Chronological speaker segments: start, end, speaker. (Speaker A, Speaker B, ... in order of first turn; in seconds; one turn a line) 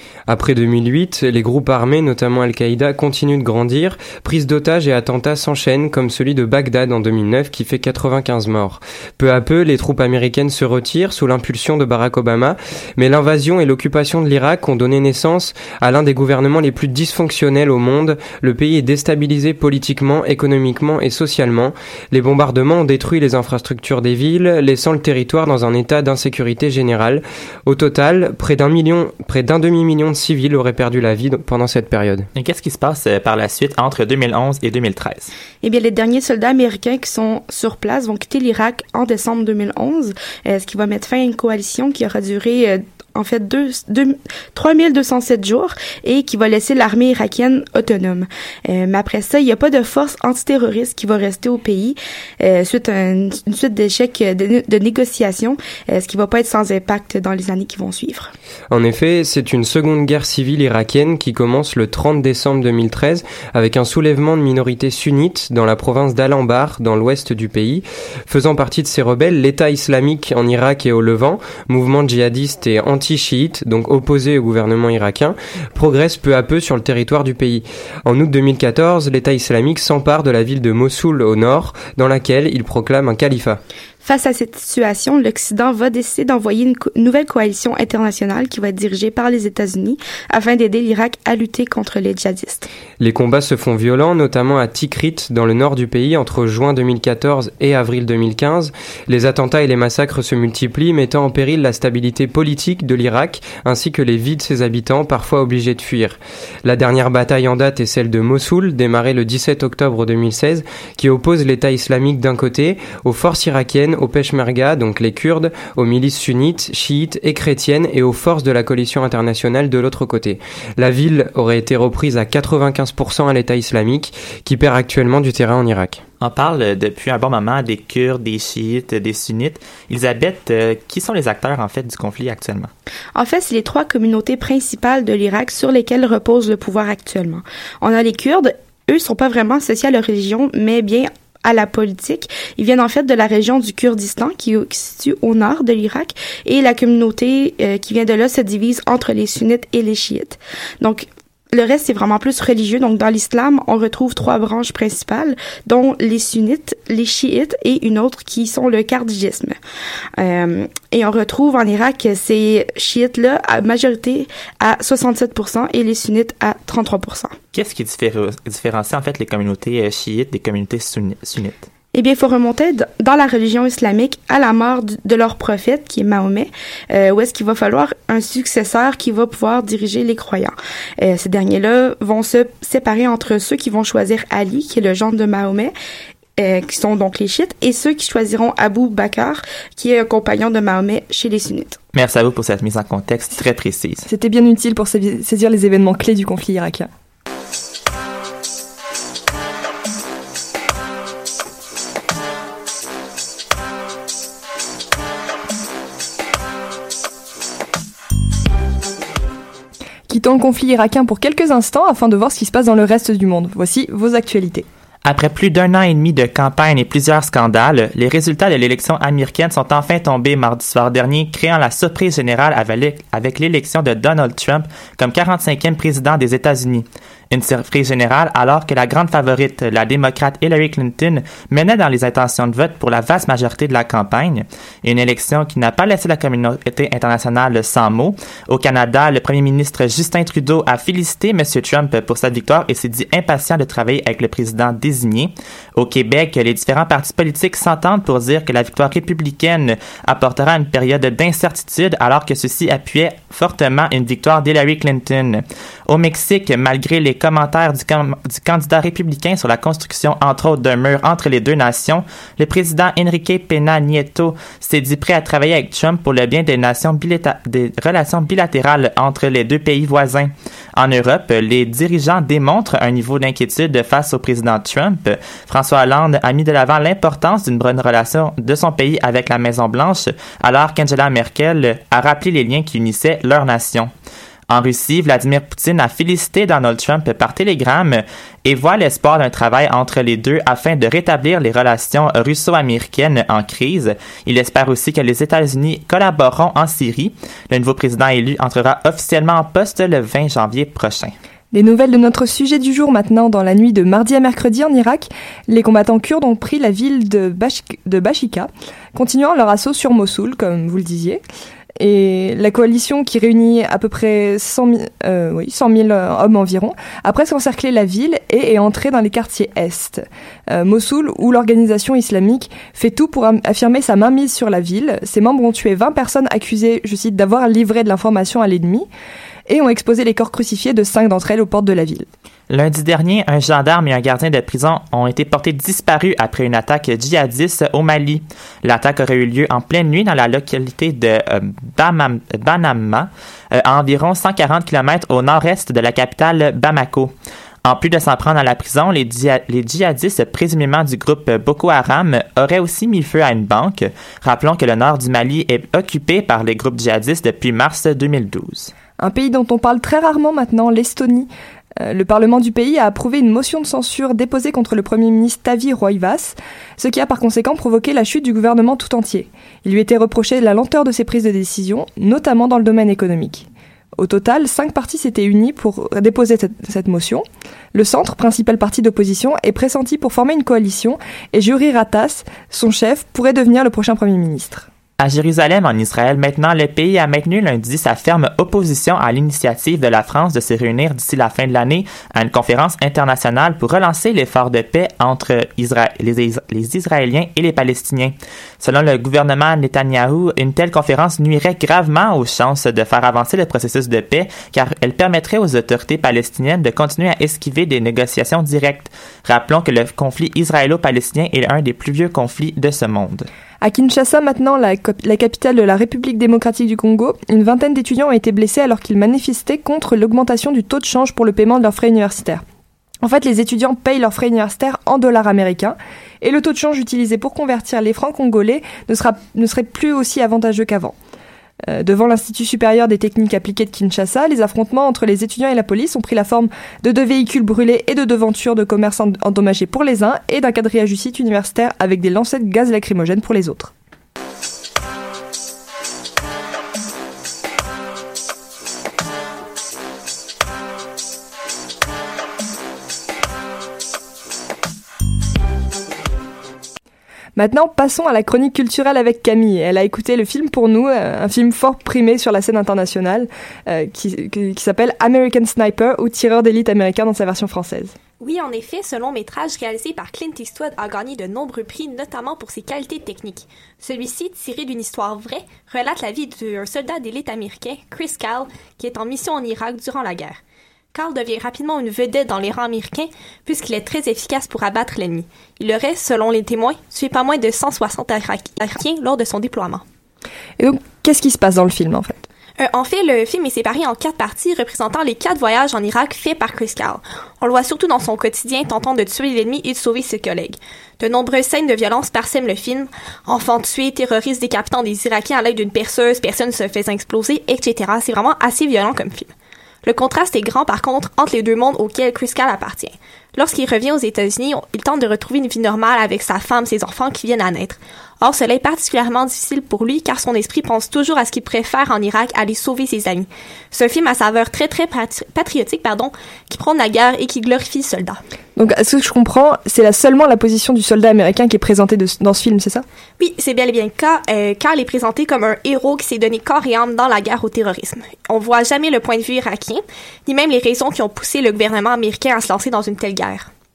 Speaker A: 0.3-32.3
Speaker B: 32.3-35.3
Speaker C: 35.6-58.3
Speaker A: 58.7-83.6
Speaker C: 84.0-92.7
Speaker A: 93.0-126.0
Speaker B: 126.2-132.7
Speaker C: 133.1-159.6
Speaker C: 160.2-167.3
Speaker B: 167.5-171.7
Speaker C: 171.9-185.7
Speaker C: 186.4-191.8
Speaker B: 191.9-194.1
Speaker D: 194.1-196.9
Speaker D: 210.1-214.7
Speaker B: 215.0-283.9
Speaker B: 284.5-301.1
Speaker D: 301.5-311.2
Speaker D: 311.8-328.9
Speaker D: 329.5-332.1
Speaker B: 332.5-347.1
Speaker B: 347.6-358.7
Speaker D: 359.0-361.3
Speaker D: 361.8-384.7
Speaker B: 385.0-413.3
Speaker D: 413.6-422.4
Speaker D: 423.0-430.9
Speaker D: 431.7-443.7
Speaker D: 457.4-467.9
Speaker E: 468.3-480.2
Speaker E: 481.0-483.0
Speaker E: 483.5-485.2
Speaker E: 485.8-489.5
Speaker D: 490.6-492.2
Speaker E: 493.1-496.7
Speaker E: 497.5-500.5
Speaker E: 501.0-502.8
Speaker E: 503.3-509.1
Speaker E: 509.9-512.8
Speaker E: 513.5-517.7
Speaker E: 518.3-523.0
Speaker E: 523.8-525.7
Speaker E: 526.7-527.4
Speaker D: 528.5-532.8
Speaker E: 533.4-539.7
Speaker E: 540.3-543.3